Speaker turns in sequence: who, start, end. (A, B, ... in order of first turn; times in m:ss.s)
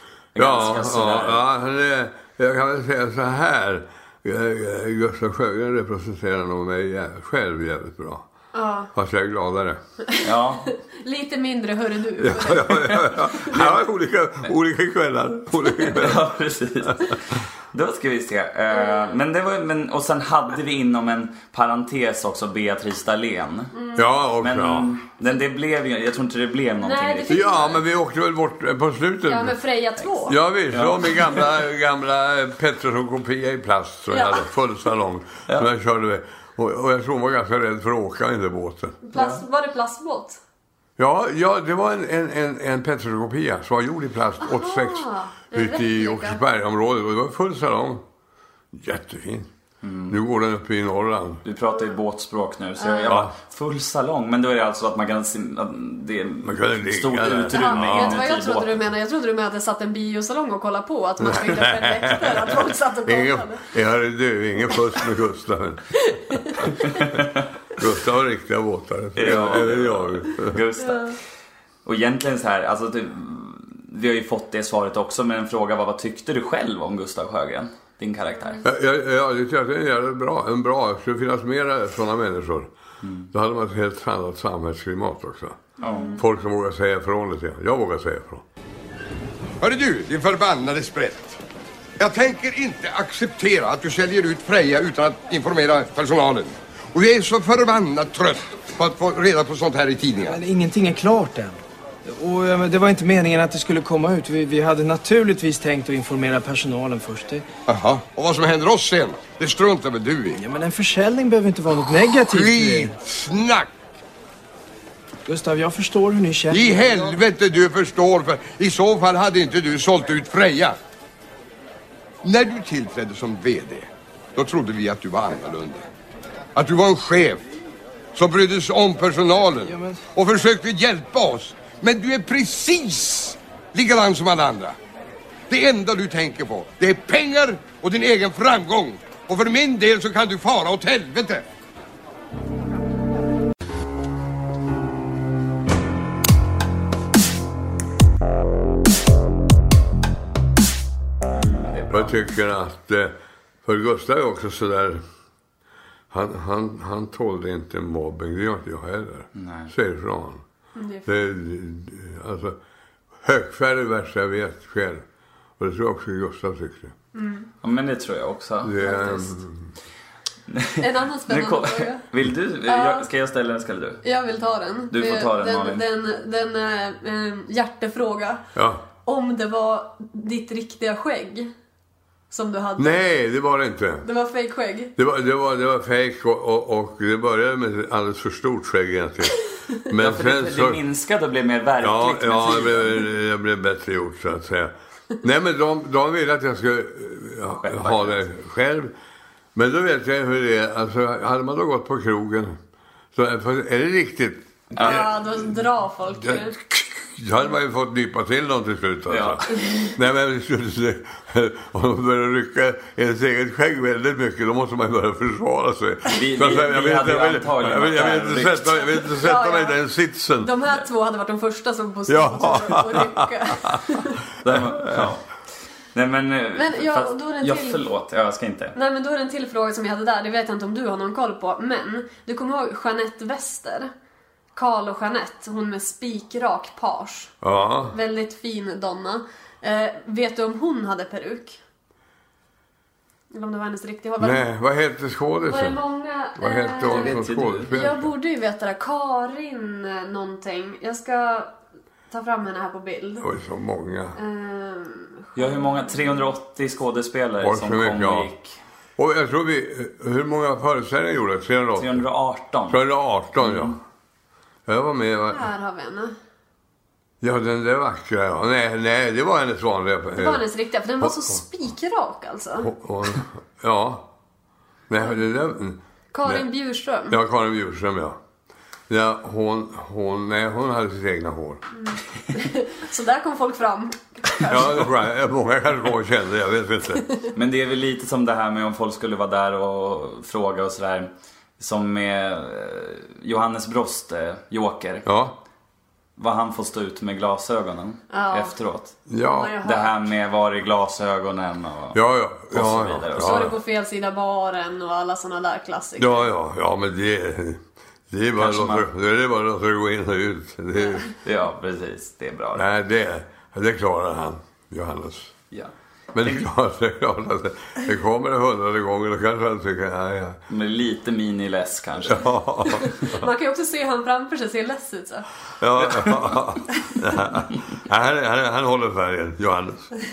0:00.4-0:01.4 A
0:00.4-0:08.3 B
0:08.5-0:08.9 C
0:08.9-0:09.8 B
0:10.2-0:10.7 A
0:10.9-0:13.5 C
0:12.2-0:16.3 B
0:13.5-0:13.8 A
0:15.8-0:23.7 A
0:16.8-0:17.1 B
0:18.7-0:19.1 C
0:23.7-0:24.1 C
0:24.0-0:24.9 B
0:24.4-0:27.8 A
0:26.8-0:27.8 C
0:27.3-0:29.6 B
0:29.3-0:30.4 C
0:30.3-0:39.0 B
0:30.7-0:31.6 A
0:34.1-0:34.5 C
0:39.0-0:40.4 C
0:39.2-0:39.4 A
0:41.0-0:48.0 B
0:44.4-0:46.4 C
0:48.7-0:49.5 B
0:49.8-0:50.2 A
0:50.1-0:51.4 B
0:51.4-0:58.8 A
0:52.8-0:53.2 C
0:53.1-0:53.3 B
0:56.4-0:58.3 B
0:57.5-1:03.6 C
1:01.2-1:06.7 B
1:06.1-1:06.9 C
1:07.0-1:07.4 A
1:07.8-1:10.6 B
1:09.2-1:11.2 A
1:10.8-1:11.2 C
1:11.8-1:18.6 A
1:18.6-1:22.7 B
1:23.0-1:23.3 A
1:23.3-1:28.4 B
1:25.8-1:26.2 A
1:25.8-1:26.2 C
1:29.6-1:31.4 D
1:32.0-1:40.4 D
1:40.3-1:47.4 E
1:47.7-1:50.4 D
1:50.4-1:53.0 E
1:52.2-1:53.7 D
1:55.3-1:57.2 E
1:56.5-2:00.8 D
2:02.2-2:05.9 D
2:06.6-2:07.4 D
2:08.2-2:14.8 D
2:09.6-2:10.0 E
2:15.5-2:21.4 D
2:31.4-2:32.2 A
2:31.9-2:33.1 B
2:33.6-2:35.0 B
2:36.1-2:40.4 B
2:39.4-2:39.7 A
2:40.8-2:41.1 C
2:41.1-2:42.6 B
2:43.2-2:45.0 B
2:45.6-2:46.9 B
2:47.1-2:47.5 C
2:47.6-2:48.8 A
2:48.6-2:49.7 B
2:48.8-2:49.3 C
2:50.5-2:54.0 A
2:50.8-2:52.0 C
2:52.7-2:53.1 C
2:54.0-2:58.4 C
2:54.9-2:55.8 A
2:58.6-2:58.8 B
2:59.0-3:01.5 C
3:02.3-3:03.0 C
3:02.8-3:04.1 B
3:04.0-3:04.9 C
3:05.0-3:10.8 B
3:10.0-3:13.1 A
3:11.8-3:18.9 B
3:17.6-3:18.2 A
3:19.6-3:22.6 B
3:23.1-3:25.6 B
3:24.7-3:25.1 A
3:24.8-3:26.6 C
3:26.2-3:40.5 B
3:29.1-3:29.6 A
3:36.1-3:39.0 A
3:39.2-3:39.8 C
3:40.4-3:44.2 C
3:42.1-3:43.8 B
3:44.4-3:45.2 A
3:44.4-3:45.1 B
3:45.9-3:48.8 A
3:46.6-3:47.8 C
3:48.8-3:53.9 C
3:54.6-3:57.3 C
3:57.4-3:58.0 B
3:57.9-4:01.6 C
4:03.3-4:04.4 C
4:04.2-4:05.8 B
4:05.5-4:11.5 C
4:06.4-4:08.1 B
4:06.9-4:07.8 A
4:12.1-4:13.3 C
4:13.2-4:14.2 B
4:14.2-4:16.1 C
4:15.4-4:18.6 A
4:17.4-4:18.3 B
4:19.0-4:22.0 B
4:21.8-4:22.8 A
4:22.7-4:23.8 B
4:23.4-4:23.8 A
4:24.7-4:25.5 B
4:25.3-4:26.1 C
4:27.2-4:30.4 B
4:30.1-4:32.7 C
4:31.0-4:31.4 B
4:32.6-4:34.1 B
4:34.9-4:36.5 B
4:36.1-4:37.2 C
4:37.1-4:38.2 B
4:38.9-4:41.6 B
4:41.8-4:44.9 C
4:44.5-4:47.1 B
4:47.3-4:55.1 A
4:55.0-4:55.4 B
4:56.2-4:59.0 A
4:58.1-4:58.5 C
4:59.1-4:59.6 B
4:59.3-5:00.0 C
4:59.6-5:02.0 A
5:01.9-5:03.6 B
5:02.5-5:03.6 A
5:03.2-5:06.3 C
5:06.0-5:11.1 B
5:08.4-5:08.9 A
5:11.2-5:12.7 A
5:12.5-5:15.4 B
5:15.5-5:16.4 A
5:16.1-5:20.4 B
5:20.5-5:22.4 A
5:22.0-5:23.2 B
5:22.8-5:25.3 C
5:25.6-5:29.9 B
5:25.9-5:26.3 A